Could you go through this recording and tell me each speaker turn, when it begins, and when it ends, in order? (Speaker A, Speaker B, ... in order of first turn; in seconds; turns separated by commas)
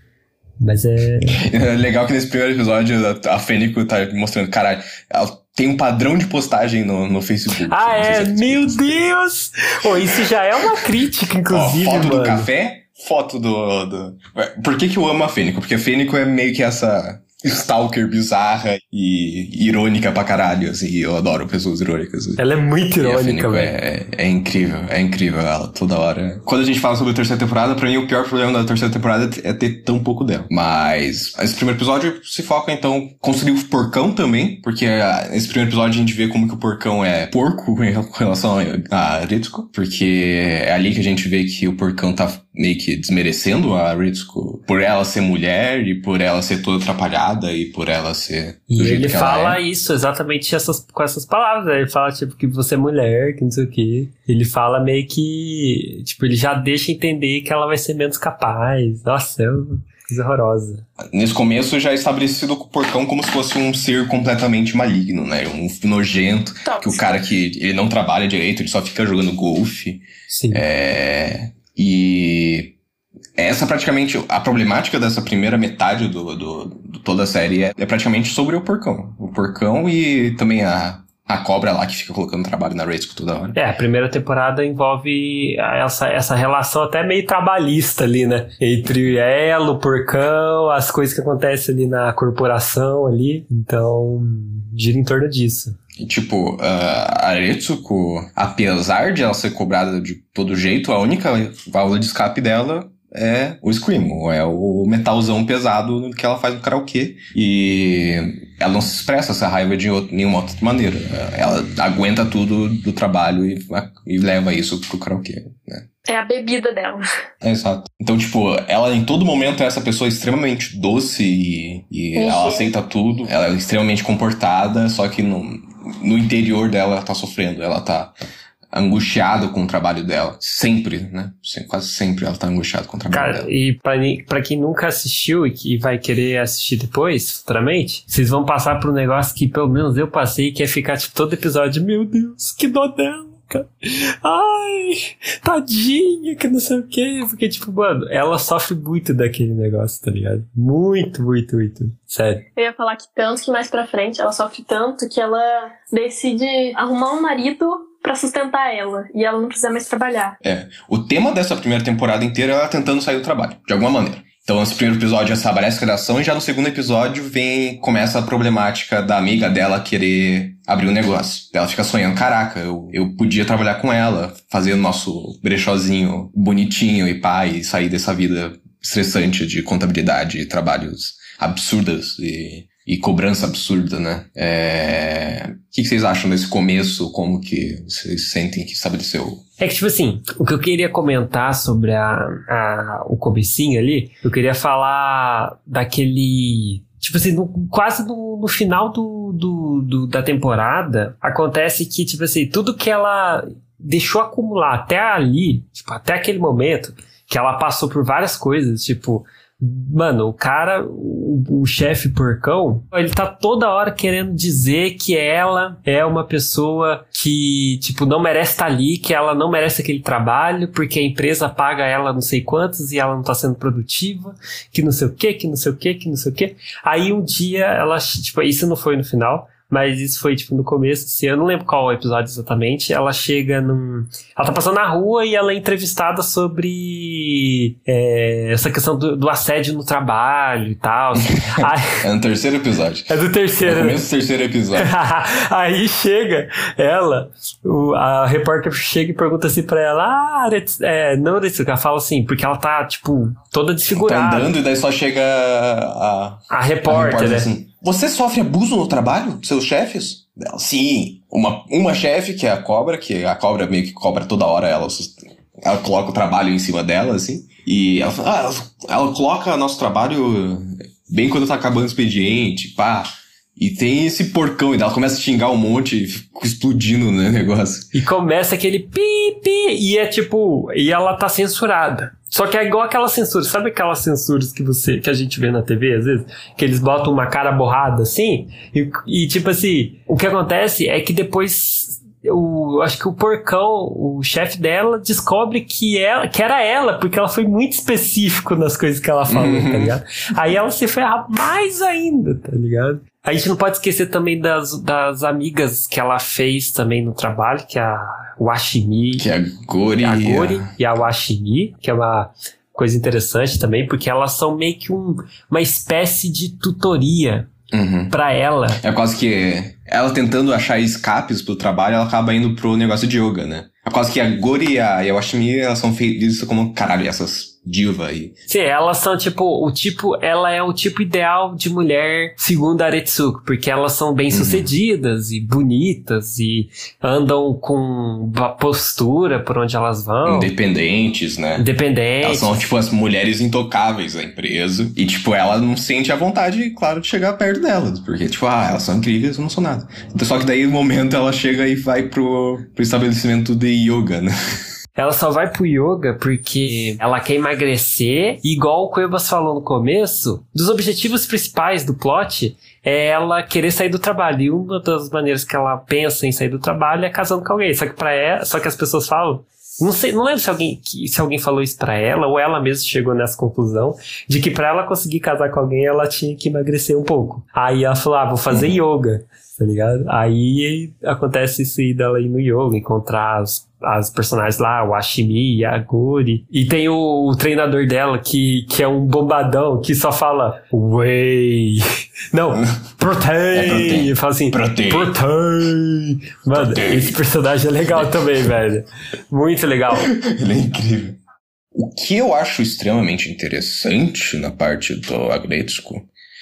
Speaker A: 0.6-1.4, Speaker B: 1.3-9.1, Speaker A: 7.7-12.5, Speaker B: 11.5-22.4, Speaker A: 22.4-23.7, Speaker B: 23.0-49.6, Speaker A: 48.7-60.8, Speaker B: 61.1-72.7, Speaker C: 66.6-67.1, Speaker A: 70.3-70.6, Speaker B: 73.4-83.5, Speaker A: 83.5-95.8, Speaker B: 96.0-115.9, Speaker C: 116.1-117.0, Speaker B: 117.4-128.1, Speaker C: 122.2-122.7, Speaker B: 128.7-133.5, Speaker A: 133.1-152.4, Speaker C: 152.6-160.4, Speaker B: 160.4-189.4, Speaker A: 189.6-242.0, Speaker B: 241.2-244.9, Speaker A: 243.1-244.0, Speaker A: 244.8-254.5, Speaker B: 253.9-277.9, Speaker A: 256.5-257.5, Speaker A: 277.9-309.3, Speaker B: 299.3-300.0, Speaker B: 309.2-310.7, Speaker A: 310.0-317.5, Speaker B: 317.7-318.1, Speaker A: 318.1-318.8, Speaker B: 318.8-328.3, Speaker A: 328.5-340.5, Speaker B: 334.3-334.7, Speaker B: 340.2-341.7, Speaker A: 341.6-342.7, Speaker B: 342.2-354.3, Speaker A: 354.9-400.1, Speaker B: 378.5-378.7, Speaker B: 393.5-395.1, Speaker B: 396.5-397.2, Speaker B: 397.8-398.2, Speaker B: 399.9-401.2, Speaker B: 401.7-406.1